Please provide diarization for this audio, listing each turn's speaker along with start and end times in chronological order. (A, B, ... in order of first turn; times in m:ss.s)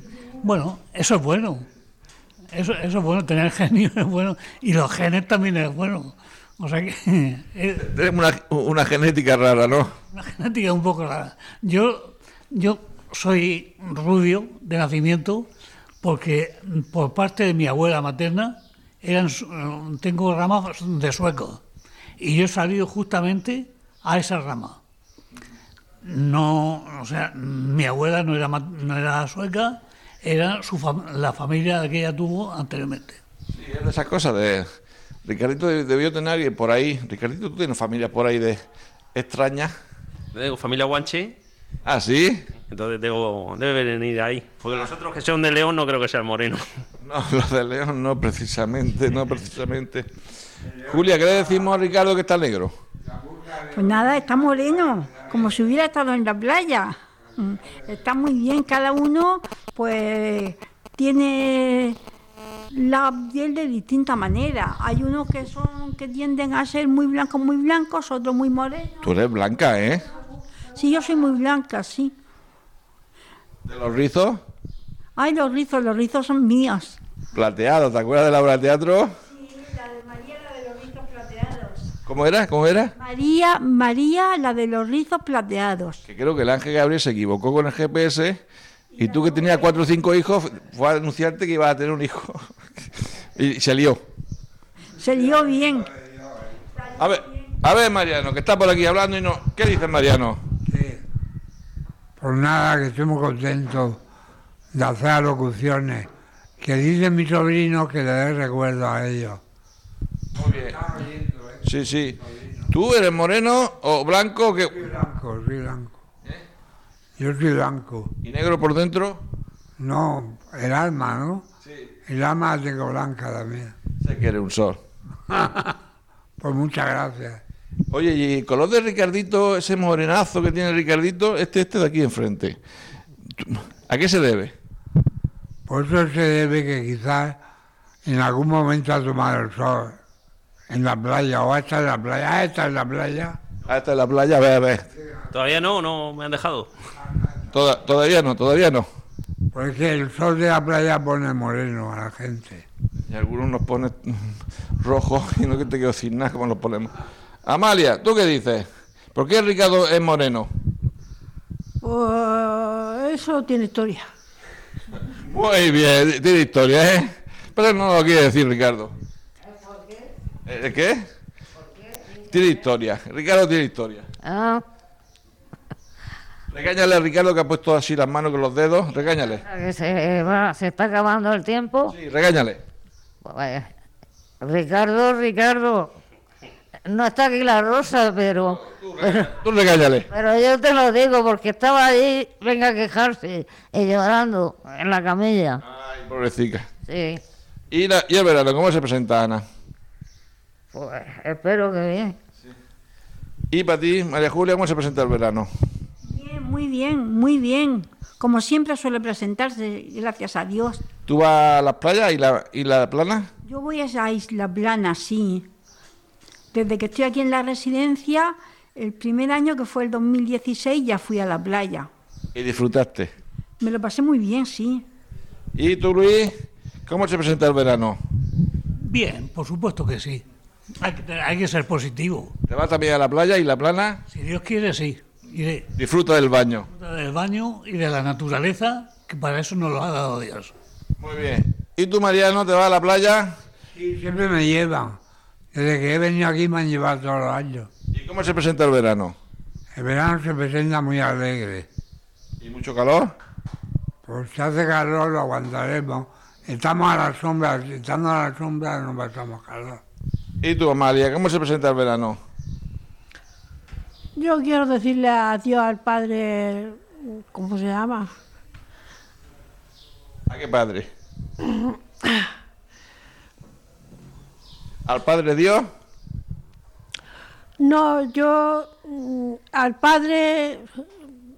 0:00.4-0:01.7 A
0:02.5-0:07.8 A
0:07.8-0:09.9 B
0:10.1-0:15.5 A
0:16.0-0:21.6 A
0:22.2-0:24.8 A
0:26.0-0:33.2 A
0:33.5-0:34.6 B
0:35.2-0:38.6 B
0:39.2-0:39.7 B
0:40.3-0:41.4 C
0:41.8-0:42.4 B
0:42.7-0:46.6 C
0:47.0-0:50.1 B
0:50.9-0:52.7 B
0:53.0-0:55.4 D
0:53.7-1:02.0 E
1:02.7-1:09.0 E
1:09.0-1:10.0 B
1:10.7-1:12.1 E
1:13.7-1:14.4 B
1:15.2-1:17.0 E
1:17.3-1:19.1 B
1:19.3-1:21.9 E
1:22.1-1:22.9 B
1:23.0-1:26.0 E
1:26.1-1:28.4 B
1:29.0-1:29.6 E
1:29.0-1:32.4 B
1:33.4-1:34.0 B
1:35.0-1:35.9 E
1:36.0-1:36.4 D
1:36.8-1:37.6 E
1:37.0-1:40.4 B
1:40.7-1:41.0 D
1:42.2-1:44.0 D
1:44.7-1:46.1 D
1:46.6-1:49.4 D
1:50.4-1:50.8 B
1:50.4-1:52.7 D
1:51.6-1:52.2 B
1:52.7-1:54.8 B
1:54.8-1:56.0 D
1:57.2-1:58.1 D
1:58.2-1:59.2 B
1:59.8-2:01.4 D
2:02.1-2:03.8 D
2:04.0-2:04.8 B
2:05.3-2:05.7 D
2:06.4-2:07.4 D
2:07.9-2:12.6 B
2:13.4-2:14.5 B
2:15.7-2:17.4 D
2:18.0-2:20.0 D
2:20.7-2:23.4 D
2:23.6-2:24.9 B
2:25.3-2:26.7 C
2:27.5-2:28.9 B
2:29.5-2:32.6 D
2:33.1-2:36.9 B
2:37.5-2:40.5 B
2:41.8-2:44.0 F
2:45.1-2:48.9 B
2:50.5-2:51.0 B
2:52.2-2:54.1 B
2:54.2-2:54.6 G
2:56.5-2:59.4 B
2:59.3-3:01.9 G
3:01.9-3:02.6 B
3:03.2-3:03.7 G
3:04.4-3:05.9 G
3:06.9-3:09.3 G
3:08.4-3:10.1 B
3:10.1-3:15.6 G
3:15.6-3:16.7 B
3:16.9-3:17.2 G
3:17.7-3:19.4 B
3:20.7-3:22.2 G
3:23.5-3:25.5 B
3:26.0-3:30.8 E
3:31.1-3:33.3 B
3:33.5-3:35.5 E
3:36.5-3:41.9 E
3:42.3-3:43.1 B
3:43.6-3:44.8 E
3:45.6-3:46.3 B
3:46.9-3:48.0 B
3:48.8-3:50.2 A
3:50.8-3:52.4 A
3:52.5-3:54.0 B
3:54.1-3:55.7 A
3:55.8-3:56.7 B
3:56.7-4:00.5 A
4:01.0-4:03.4 B
4:03.7-4:05.0 D
4:05.5-4:07.7 D
4:07.9-4:09.2 B
4:09.8-4:11.7 D
4:12.4-4:13.1 B
4:14.1-4:19.8 D
4:20.4-4:22.2 B
4:24.2-4:26.8 F
4:27.3-4:28.1 F
4:30.3-4:30.9 B
4:34.9-4:35.7 B
4:37.6-4:40.7 F